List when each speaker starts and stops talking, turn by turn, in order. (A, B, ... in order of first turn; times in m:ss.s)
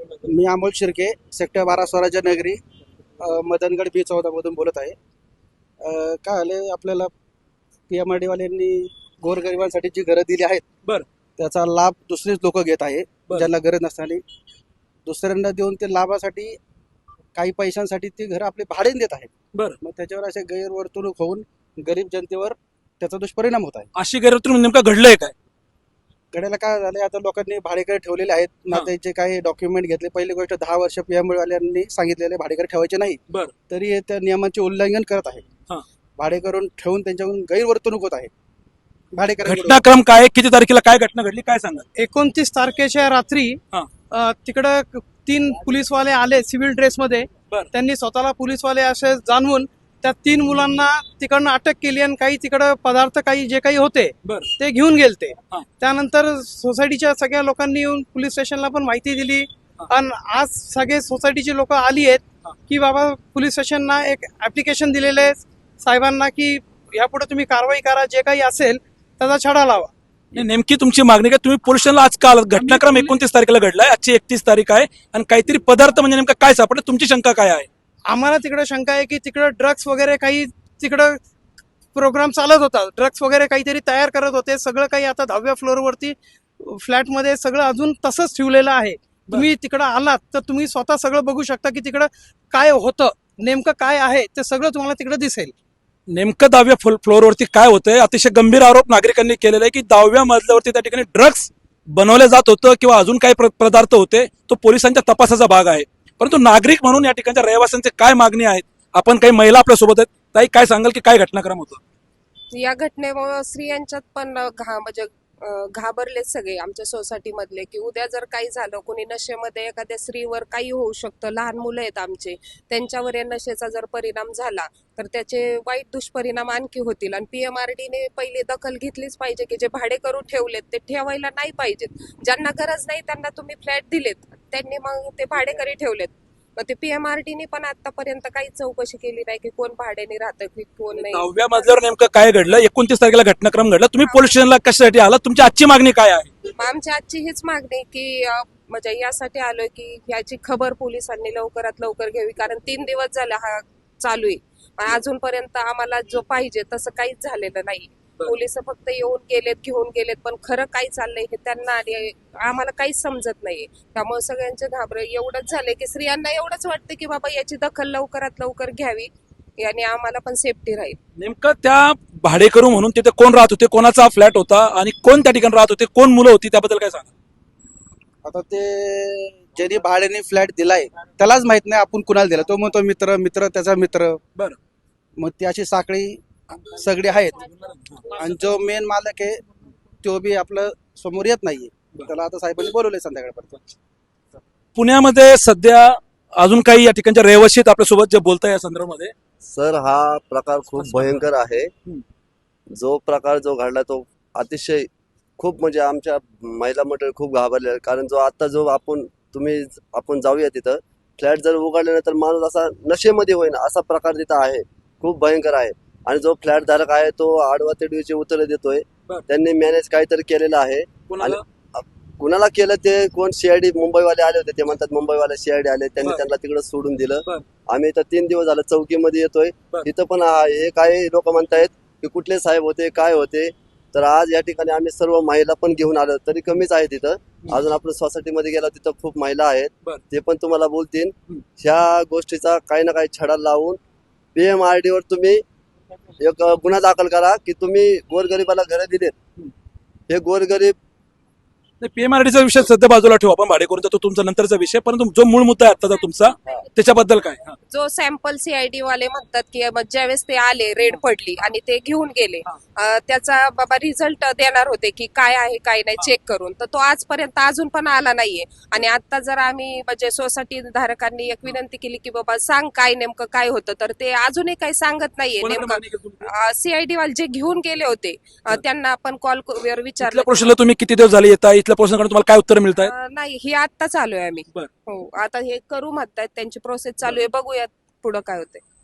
0:00.2-0:02.6 A
0:03.2-0:04.9 A
0:05.8-0:07.1 A
0:07.9-0:10.6 A
0:11.4-0:14.2 A
0:15.0-0:16.6 A
0:17.3-0:23.9 A
0:24.0-0:25.3 B
0:26.3-0:35.4 A
0:36.2-0:38.3 A
0:39.1-0:39.8 A
0:39.4-0:41.8 B
0:42.0-0:43.6 C
0:44.1-1:09.9 C
0:54.2-0:54.5 B
1:10.3-1:17.7 B
1:12.6-1:13.1 C
1:18.1-1:21.2 C
1:21.9-1:35.5 C
1:36.1-1:51.8 B
1:52.5-2:21.8 D
2:21.0-2:26.3 B
2:24.0-2:24.4 D
2:26.6-2:51.0 D
2:51.2-2:57.1 B
2:58.2-3:04.2 A
3:05.2-3:06.2 A
3:06.8-3:07.4 A
3:07.5-3:08.0 B
3:08.1-3:09.4 A
3:10.0-3:13.7 A
3:14.8-3:19.1 B
3:19.4-3:21.7 E
3:20.8-3:21.2 B
3:22.7-4:03.8 E
3:41.1-3:41.4 B
3:46.0-3:46.2 B
4:04.3-4:05.4 E
4:06.2-4:09.1 E
4:10.1-4:10.8 E
4:11.8-4:17.6 B
4:17.7-4:40.5 D
4:35.4-4:36.3 B
4:40.0-4:42.9 B
4:42.8-4:48.6 D